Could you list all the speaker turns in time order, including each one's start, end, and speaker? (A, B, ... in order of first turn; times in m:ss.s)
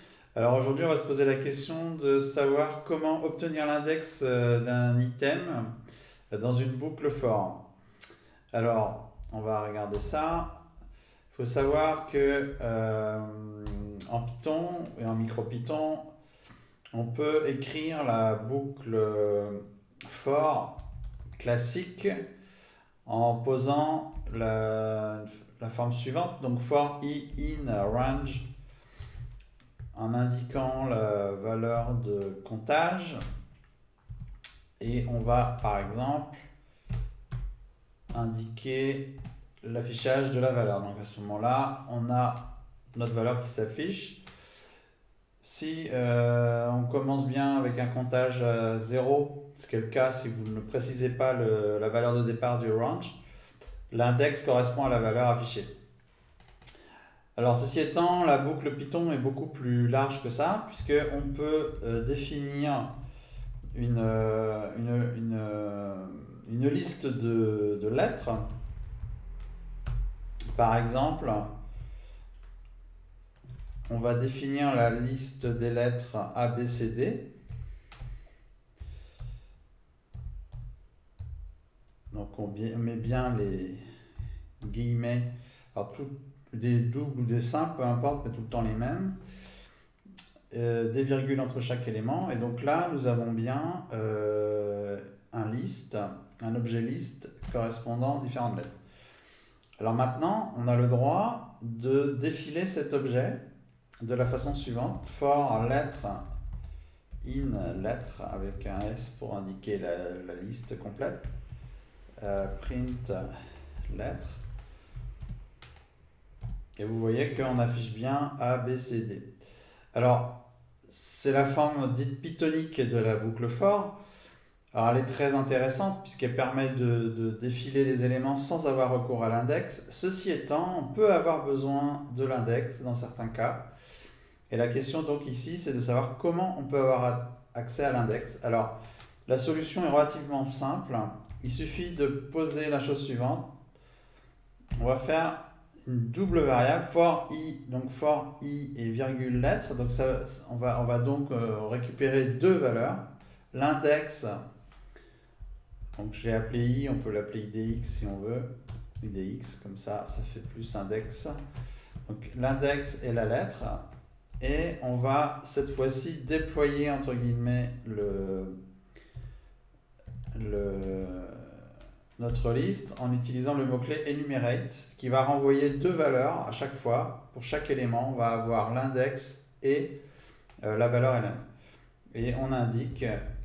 0:00.4-0:05.7 A
0:06.3-0:07.6 A
0:08.5-0:10.5 A
0:11.3-0:16.0 A
0:16.9-0:20.8 A
0:21.4-0:22.2 A
0:23.0-0:28.4 A
0:29.9-0:33.2 A
0:34.8-0:36.5 A
0:38.1-0:39.1 A
0:39.6-0:42.4 A
0:42.9-0:44.2 A
0:45.4-0:53.2 A
0:53.9-0:55.7 A
0:57.4-1:02.9 A
1:03.7-1:08.5 A
1:10.5-1:11.5 A
1:13.9-1:17.2 A
1:22.1-1:23.8 A
1:24.6-1:29.2 A
1:30.5-1:38.8 A
1:39.8-1:43.4 A
1:44.0-1:46.2 A
1:47.2-1:51.3 A
1:52.2-1:53.3 A
1:53.9-1:54.4 A
1:56.8-1:59.3 A
1:59.9-2:03.9 A
2:04.7-2:13.6 A
2:14.5-2:18.8 A
2:19.3-2:23.5 A
2:24.8-2:34.4 A
2:35.9-2:38.5 A
2:39.0-2:41.4 A
2:42.1-2:43.8 A
2:44.4-2:48.6 A
2:50.3-2:51.7 A
2:52.2-2:59.9 A
3:00.6-3:01.4 A
3:02.1-3:03.2 A